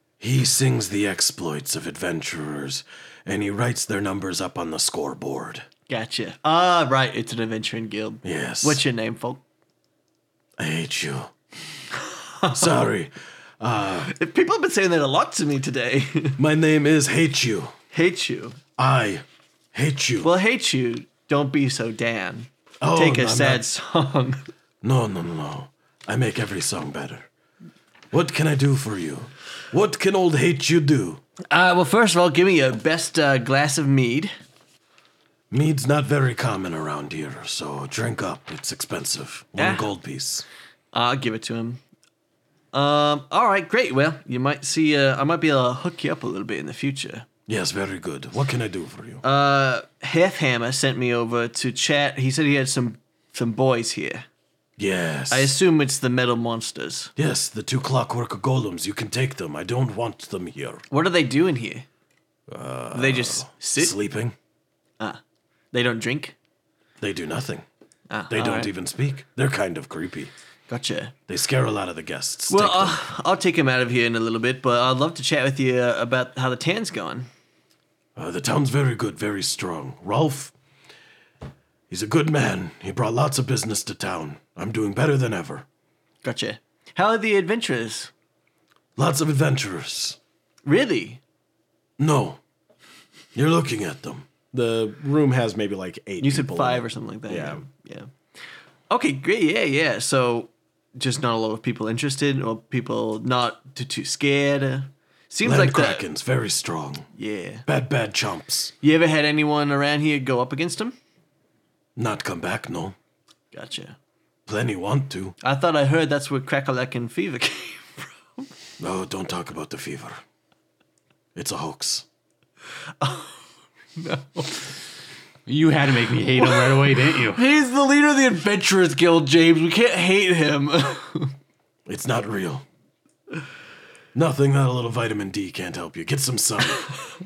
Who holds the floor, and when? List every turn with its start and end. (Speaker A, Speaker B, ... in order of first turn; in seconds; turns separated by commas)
Speaker A: 0.2-5.7, Speaker B: 5.9-9.4, Speaker A: 8.2-8.8, Speaker A: 10.6-11.3, Speaker B: 12.2-12.7, Speaker A: 12.5-14.1, Speaker B: 14.0-16.4, Speaker A: 16.4-17.7, Speaker B: 17.9-18.6, Speaker A: 18.8-20.3, Speaker B: 20.2-24.4, Speaker A: 22.8-23.6, Speaker A: 24.8-27.3, Speaker A: 28.1-31.2, Speaker B: 31.5-34.3, Speaker A: 35.5-40.4, Speaker B: 39.5-39.9, Speaker B: 40.9-41.8, Speaker B: 42.7-47.3, Speaker A: 47.5-49.2, Speaker B: 49.2-54.2, Speaker A: 54.8-55.5, Speaker B: 55.3-57.1, Speaker A: 57.1-60.8, Speaker B: 60.9-61.9, Speaker A: 62.5-64.3, Speaker B: 62.9-63.9, Speaker B: 65.7-66.3, Speaker A: 67.0-67.7, Speaker B: 68.1-68.7, Speaker A: 68.3-70.3, Speaker B: 70.7-71.1, Speaker A: 71.3-73.0, Speaker B: 72.5-77.3, Speaker A: 78.2-80.5, Speaker A: 81.9-85.6, Speaker B: 86.2-88.1, Speaker A: 89.0-90.2, Speaker B: 90.6-91.2, Speaker A: 92.0-92.4, Speaker A: 93.3-97.6, Speaker B: 96.2-98.1, Speaker B: 98.9-106.0, Speaker A: 105.4-107.1, Speaker B: 107.1-107.7, Speaker A: 107.7-108.7, Speaker B: 108.8-111.0, Speaker A: 112.0-113.0, Speaker B: 113.5-114.0, Speaker A: 114.5-115.3, Speaker B: 115.4-118.5, Speaker A: 118.8-120.2, Speaker A: 121.3-122.0, Speaker B: 123.0-123.4, Speaker B: 124.0-124.7, Speaker C: 125.5-127.4, Speaker B: 126.4-131.3, Speaker A: 131.9-132.6, Speaker A: 134.1-136.9